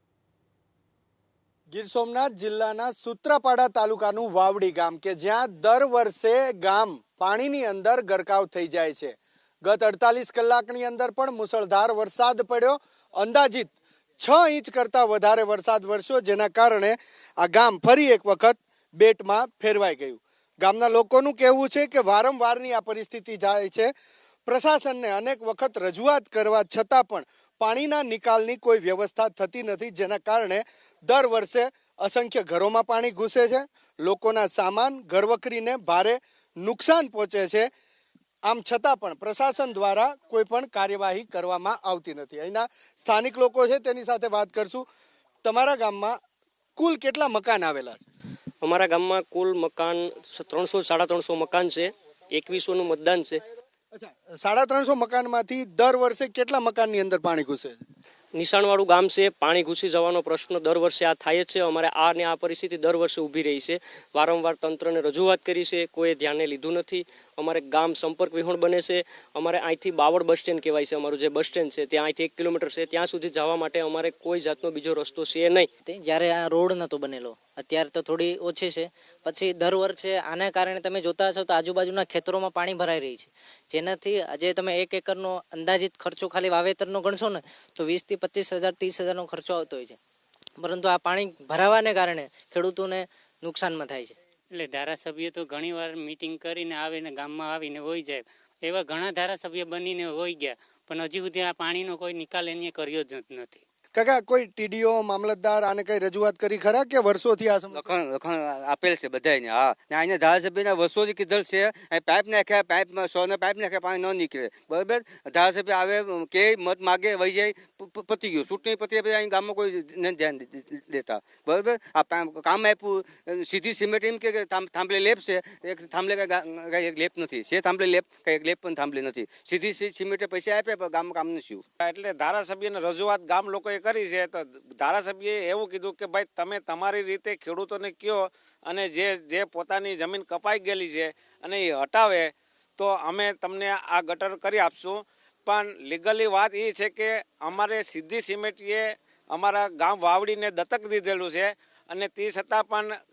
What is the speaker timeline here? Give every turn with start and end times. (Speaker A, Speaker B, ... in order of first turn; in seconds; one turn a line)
Speaker A: 1.7-23.9
Speaker A: 24.5-37.7
Speaker A: 38.4-44.9
Speaker A: 45.4-46.1
Speaker A: 46.8-48.0
Speaker B: 48.6-53.4
Speaker A: 53.9-57.8
Speaker B: 58.3-75.7
Speaker C: 75.9-90.0
Speaker C: 90.6-94.1
Speaker D: 94.5-103.6
Speaker A: 103.9-107.8
Speaker E: 107.7-131.6
Speaker F: 131.8-152.9